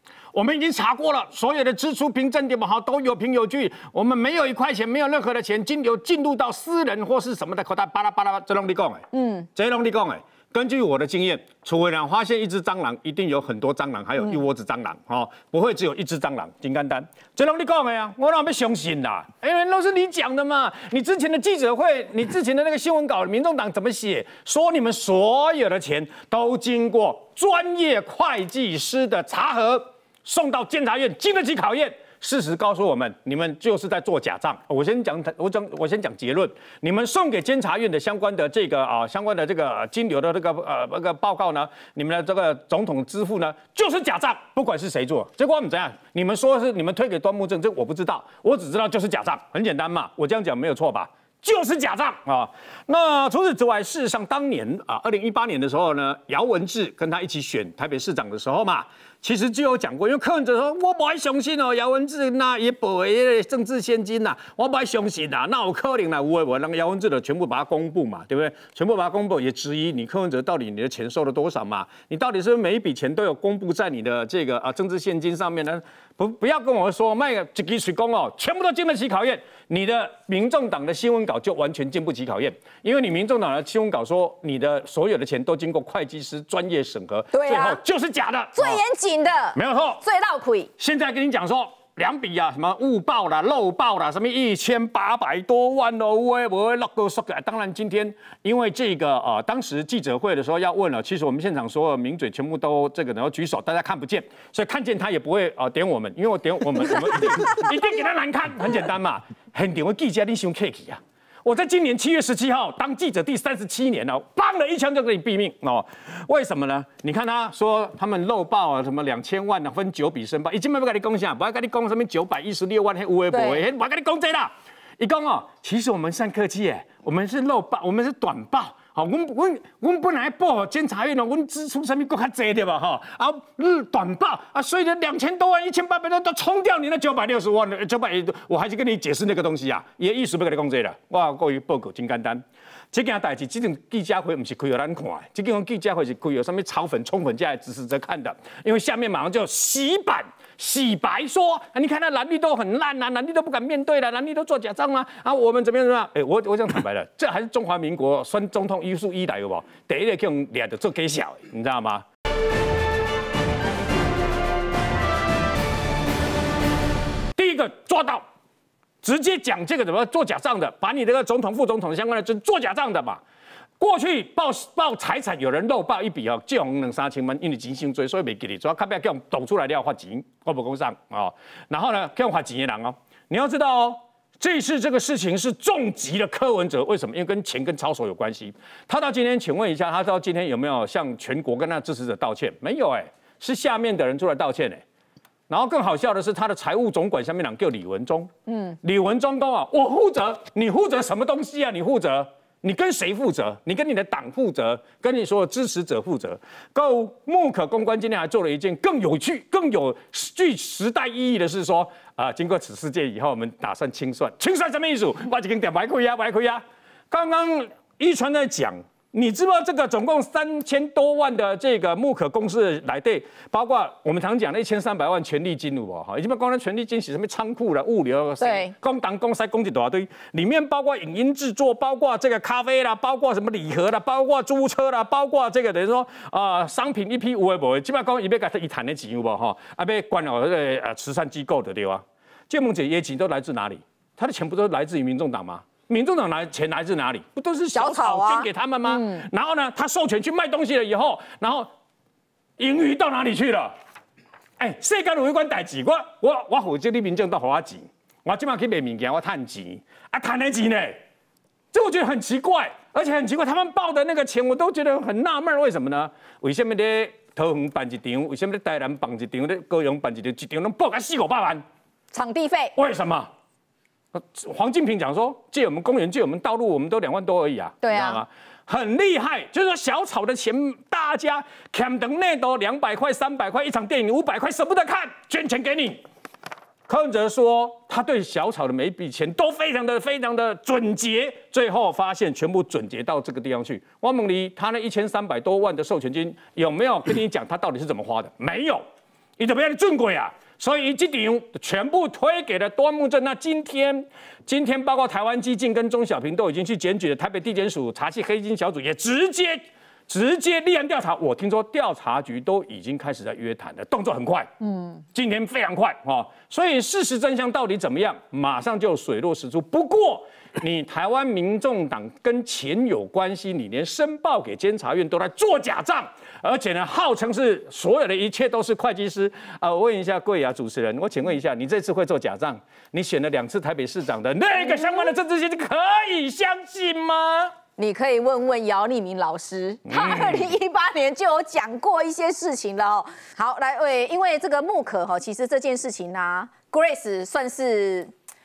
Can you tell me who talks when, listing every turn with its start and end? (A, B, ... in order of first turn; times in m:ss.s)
0:00.3-1:28.8 A
0:09.1-0:09.5 B
1:27.3-1:27.8 B
1:28.5-1:30.7 B
1:29.5-1:30.0 A
1:30.8-2:42.0 A
2:03.3-2:03.6 B
2:47.4-2:48.2 A
2:49.0-2:53.2 A
2:53.8-3:14.8 A
3:15.5-3:18.3 A
3:18.5-3:18.8 B
3:18.8-4:11.7 A
3:48.4-3:48.7 B
4:07.7-4:09.2 B
4:12.6-4:13.7 A
4:14.6-4:21.0 A
4:21.7-4:31.6 A
4:32.1-4:32.7 B
4:32.8-4:33.3 A
4:34.1-4:46.0 A
4:37.8-4:38.2 B
4:46.9-4:58.8 A
4:59.4-5:14.5 A
5:15.1-5:37.5 A
5:37.8-5:48.1 B
5:39.9-5:40.4 A